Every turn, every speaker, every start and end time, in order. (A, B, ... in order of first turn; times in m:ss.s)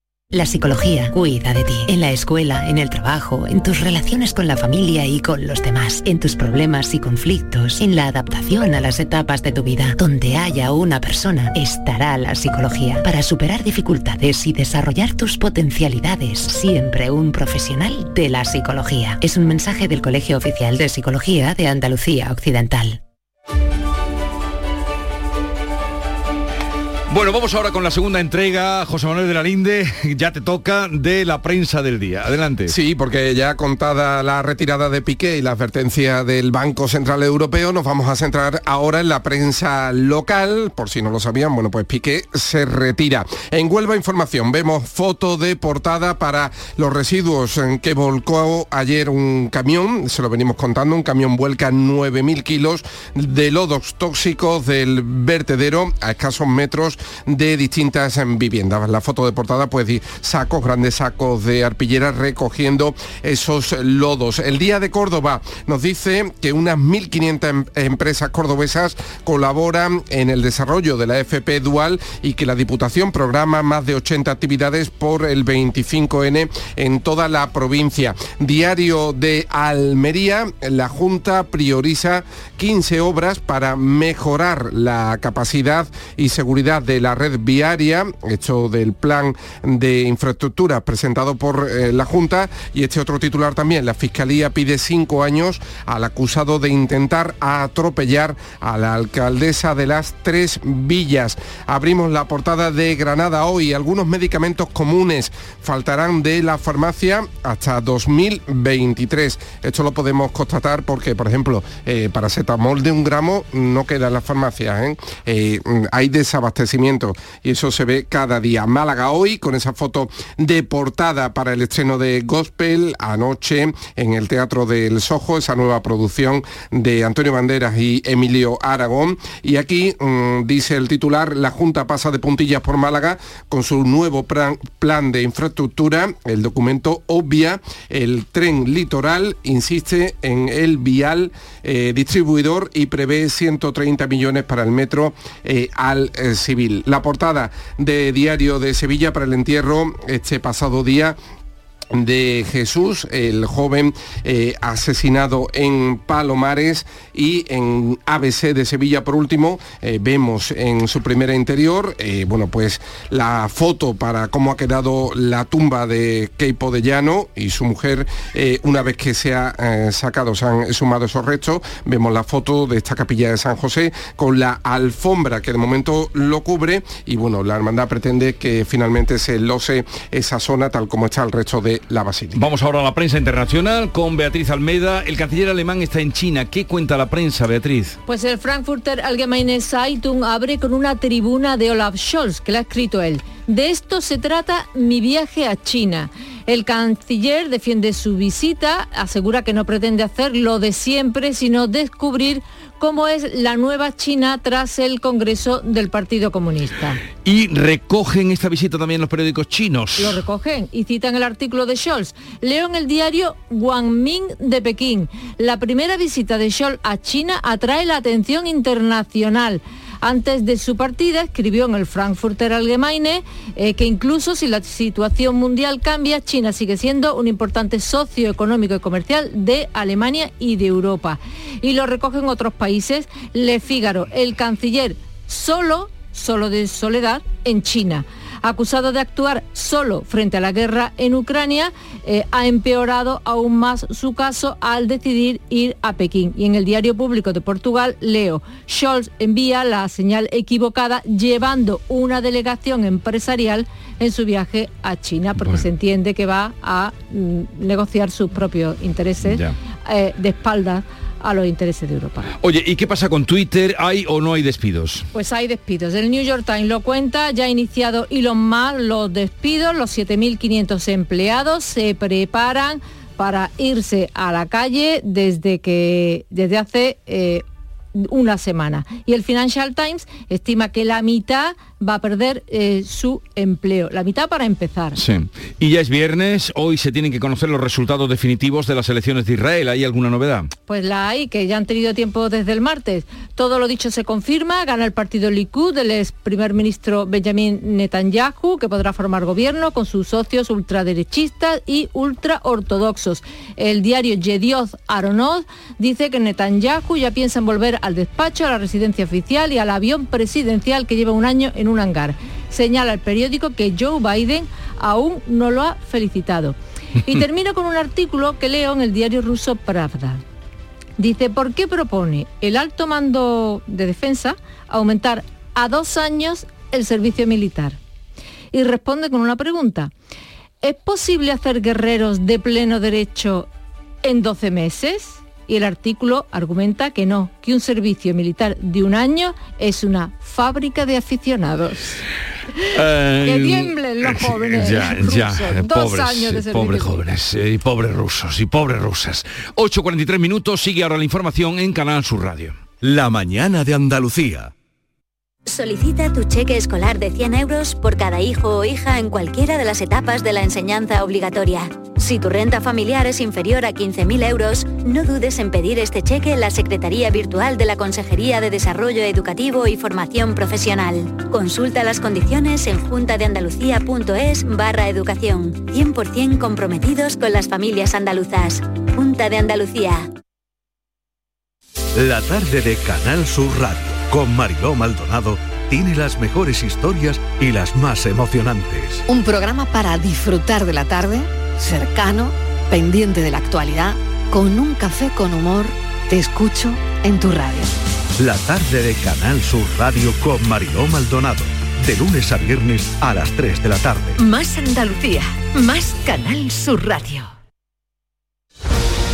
0:00.3-0:23.0 A
0:27.1-0:32.7 B
0:32.7-2:31.1 C
2:31.9-3:02.4 C
3:02.3-3:08.0 B
3:08.0-3:27.0 D
3:27.2-3:30.2 B
3:30.0-4:22.3 D
4:19.2-4:19.5 B
4:22.4-4:25.1 B
4:25.1-4:37.4 D
4:37.9-4:45.0 D
4:44.9-4:50.5 B
4:50.7-5:20.2 D
5:21.0-5:27.8 D
5:28.5-5:29.9 D
5:30.6-5:33.5 D
5:34.0-5:41.9 D
5:42.7-5:52.6 B
5:43.2-5:47.0 D
5:52.8-5:54.5 E
5:55.5-6:20.0 F
6:21.9-6:29.0 E
6:29.1-6:37.7 G
6:38.2-6:44.2 E
6:44.2-6:47.3 G